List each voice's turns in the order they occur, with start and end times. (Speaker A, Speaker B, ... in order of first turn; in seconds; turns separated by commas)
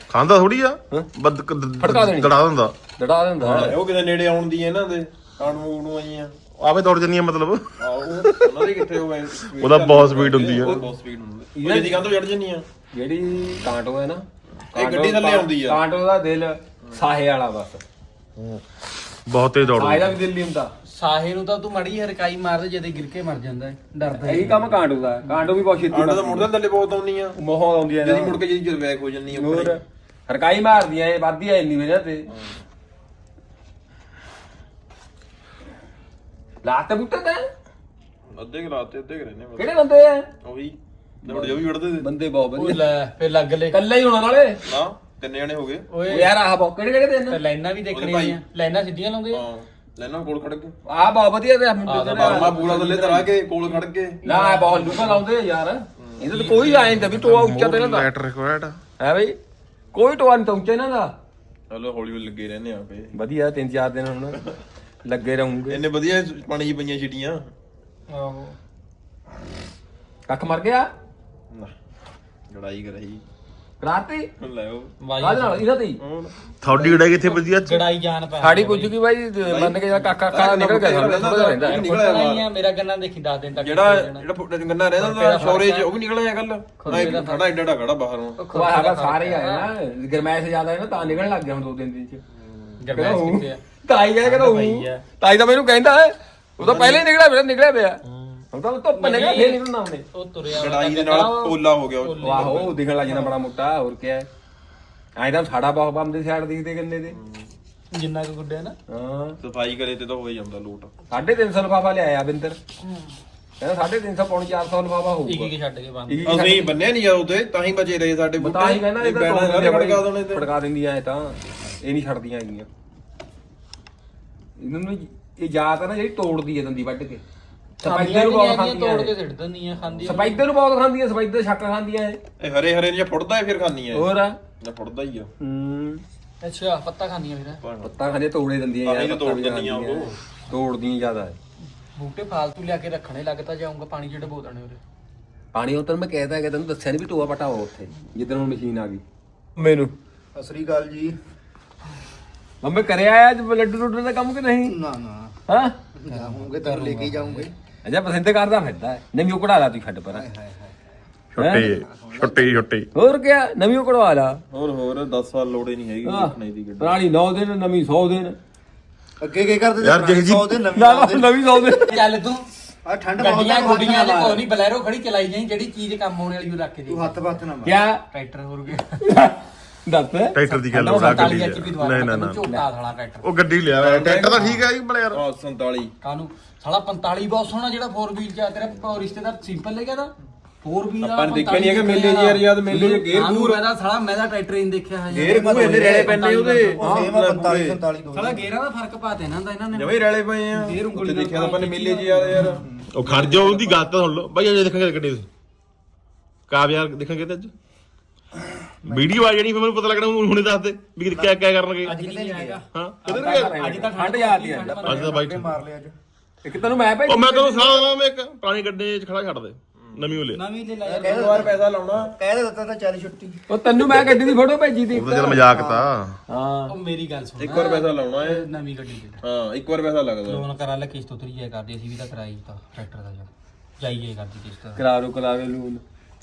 Speaker A: 0.1-2.8, Speaker B: 1.8-2.4, Speaker B: 3.0-3.8, Speaker A: 3.4-3.8, Speaker C: 3.5-6.3, Speaker A: 6.6-7.7, Speaker C: 7.8-12.7, Speaker A: 9.6-10.8, Speaker B: 11.6-12.1, Speaker B: 12.9-17.8, Speaker C: 14.7-15.8, Speaker A: 18.4-18.6, Speaker A: 19.3-20.2, Speaker B: 19.8-20.7, Speaker D: 20.9-24.8, Speaker B: 24.1-26.5, Speaker C: 25.9-27.4, Speaker B: 27.4-28.4, Speaker C: 28.0-29.8, Speaker B: 29.3-32.3, Speaker C: 32.3-32.6, Speaker B: 36.6-37.5, Speaker C: 38.4-39.7, Speaker B: 39.6-40.3, Speaker C: 40.4-42.1, Speaker B: 41.3-42.8, Speaker D: 42.5-43.8, Speaker B: 43.7-44.6, Speaker C: 44.6-45.9, Speaker D: 45.9-46.3, Speaker B: 46.1-47.4, Speaker D: 47.3-49.5, Speaker C: 47.9-48.4, Speaker C: 49.3-50.8, Speaker B: 50.9-53.0, Speaker D: 51.9-53.3, Speaker C: 52.0-54.2, Speaker D: 54.2-55.2, Speaker B: 54.2-58.1, Speaker D: 56.2-57.1, Speaker A: 57.0-58.8, Speaker B: 59.0-59.4, Speaker B: 59.9-61.1, Speaker C: 61.7-63.1, Speaker B: 63.1-64.5, Speaker B: 65.0-65.8, Speaker C: 65.7-67.5, Speaker D: 68.1-68.6, Speaker B: 70.3-70.9, Speaker C: 72.5-73.2, Speaker B: 73.8-74.3, Speaker C: 74.4-74.9, Speaker D: 75.0-75.6, Speaker B: 75.2-76.0, Speaker C: 76.0-76.3, Speaker A: 76.6-77.8, Speaker D: 76.7-78.9, Speaker B: 78.4-81.9, Speaker C: 79.5-82.5, Speaker D: 81.6-84.3, Speaker C: 83.5-88.4, Speaker D: 85.0-85.9, Speaker D: 86.8-87.5, Speaker B: 86.9-87.2, Speaker D: 88.4-89.7, Speaker B: 88.5-92.2, Speaker C: 92.4-92.7, Speaker D: 92.8-93.6, Speaker B: 92.9-100.1, Speaker D: 94.2-95.0, Speaker C: 96.6-97.0, Speaker D: 99.0-103.3, Speaker C: 100.5-102.8, Speaker B: 102.2-104.3, Speaker B: 105.2-107.2, Speaker C: 107.1-107.5, Speaker D: 107.9-108.8, Speaker B: 108.9-109.4, Speaker C: 109.4-110.9, Speaker B: 111.1-112.6, Speaker D: 112.8-113.1, Speaker B: 113.6-115.5, Speaker D: 115.3-116.7, Speaker B: 116.1-116.7, Speaker C: 116.3-120.5, Speaker B: 118.4-122.7, Speaker B: 124.6-127.2, Speaker B: 127.8-129.2, Speaker D: 127.8-130.4, Speaker B: 130.1-132.2, Speaker C: 132.4-135.3, Speaker B: 133.9-134.4, Speaker B: 135.4-136.0, Speaker D: 136.4-137.6, Speaker C: 137.6-138.0, Speaker B: 137.8-141.4, Speaker C: 138.8-140.2, Speaker D: 142.0-144.8, Speaker B: 145.5-149.0, Speaker B: 149.6-149.9, Speaker E: 150.3-151.2, Speaker B: 152.6-154.8, Speaker E: 154.7-155.4, Speaker B: 155.5-155.8, Speaker E: 156.0-157.5, Speaker D: 156.1-157.5, Speaker B: 157.8-160.3, Speaker E: 160.1-160.8, Speaker A: 161.3-162.9, Speaker B: 161.4-161.7, Speaker E: 161.6-162.6, Speaker B: 162.9-164.4, Speaker C: 164.5-167.0, Speaker B: 166.1-168.4, Speaker E: 169.2-171.3, Speaker A: 169.8-170.6, Speaker B: 170.7-172.1, Speaker D: 171.8-172.5, Speaker E: 172.8-174.5, Speaker D: 173.2-177.3, Speaker E: 176.9-177.8, Speaker B: 177.6-178.0, Speaker D: 178.1-179.2, Speaker B: 179.0-181.4, Speaker A: 180.3-182.4, Speaker D: 180.5-183.3, Speaker A: 183.2-185.2, Speaker C: 183.8-184.6, Speaker D: 184.3-184.6, Speaker C: 185.1-185.9, Speaker D: 186.0-196.9, Speaker C: 191.0-193.7, Speaker C: 195.1-197.8, Speaker E: 195.2-196.2, Speaker E: 196.8-198.5, Speaker D: 198.1-200.0, Speaker C: 199.7-202.6, Speaker D: 200.5-202.7, Speaker E: 202.6-202.9, Speaker A: 202.9-205.3, Speaker A: 206.5-207.5, Speaker E: 208.8-209.1, Speaker A: 208.9-212.0, Speaker E: 211.1-212.6, Speaker D: 211.8-215.3, Speaker A: 212.7-213.5, Speaker B: 213.1-214.9, Speaker E: 214.8-215.9, Speaker A: 214.8-215.5, Speaker B: 216.4-217.8, Speaker A: 217.1-220.4, Speaker C: 219.8-220.1, Speaker D: 220.3-221.6, Speaker C: 220.9-222.1, Speaker E: 221.0-223.4, Speaker B: 223.5-225.4, Speaker A: 224.9-226.2, Speaker E: 225.1-225.9, Speaker B: 226.3-226.8, Speaker D: 226.7-229.2, Speaker C: 227.4-228.5, Speaker C: 229.2-230.5, Speaker D: 230.2-233.3, Speaker D: 233.8-234.8, Speaker B: 234.8-235.8